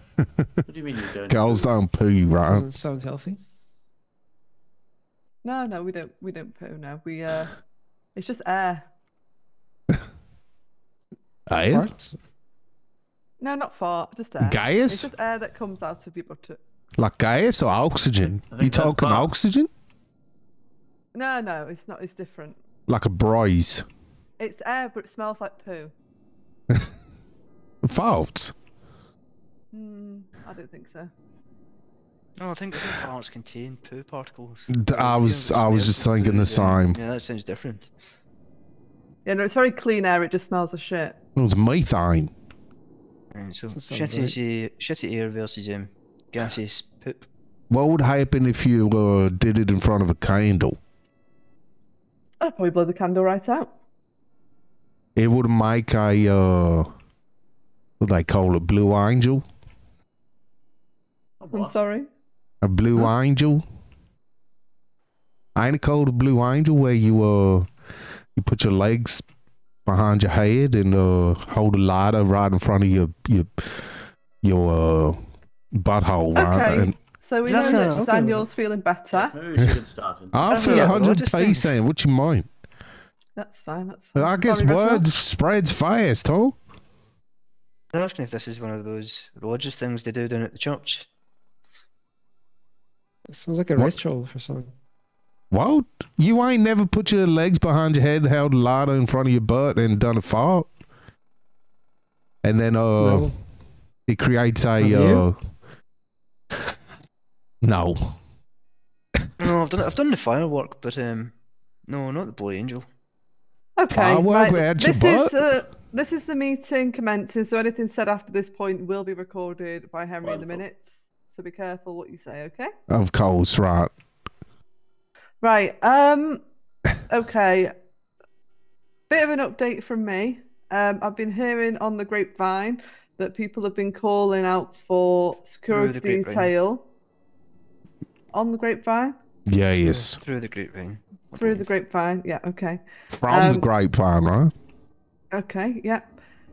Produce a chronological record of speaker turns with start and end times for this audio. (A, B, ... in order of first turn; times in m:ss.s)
0:00.2-0:00.6 A
0:00.7-0:01.7 B
0:01.3-0:02.7 A
0:02.5-0:03.4 C
0:05.4-0:07.5 D
0:08.2-0:08.8 D
0:11.5-0:11.9 A
0:11.6-0:12.2 C
0:13.4-0:16.6 D
0:14.4-0:15.1 A
0:17.0-0:19.7 A
0:18.2-0:19.3 B
0:21.1-0:22.6 D
0:22.9-0:23.8 A
0:24.4-0:25.9 D
0:27.8-0:28.5 A
0:29.7-0:31.1 D
0:32.4-0:37.9 E
0:34.7-0:37.0 A
0:39.2-0:41.2 D
0:41.4-0:42.3 A
0:43.3-0:47.3 E
0:43.7-0:44.4 C
0:47.7-0:50.8 A
0:52.4-0:53.7 D
0:55.2-0:56.9 A
0:58.0-0:59.4 A
1:01.4-1:01.8 B
1:01.5-1:02.1 D
1:02.6-1:03.6 A
1:05.6-1:07.7 A
1:08.4-1:09.2 A
1:09.9-1:15.2 A
1:15.7-1:16.9 A
1:16.3-1:19.4 D
1:17.4-1:18.1 E
1:17.5-1:18.5 C
1:19.1-1:20.5 B
1:20.3-1:22.5 A
1:20.5-1:21.8 E
1:20.6-1:21.0 D
1:23.4-1:25.1 D
1:24.2-1:26.6 A
1:27.9-1:31.1 E
1:33.3-1:34.7 C
1:35.5-1:40.7 A
1:42.4-1:43.3 A
1:43.0-1:43.3 C
1:44.1-1:45.4 A
1:44.8-1:45.3 C
1:47.6-1:48.2 A
1:49.4-1:51.3 E
1:51.9-1:52.8 E
1:53.8-2:02.7 D
1:53.9-1:55.4 A
2:00.2-2:00.6 B
2:02.9-2:03.9 A
2:05.4-2:06.4 D
2:07.1-2:07.7 D
2:09.1-2:16.8 D
2:15.7-2:16.5 E
2:18.3-2:19.2 D
2:19.5-2:20.2 A
2:19.8-2:21.7 E
2:21.3-2:23.7 D
2:23.1-2:24.5 A
2:25.3-2:26.1 D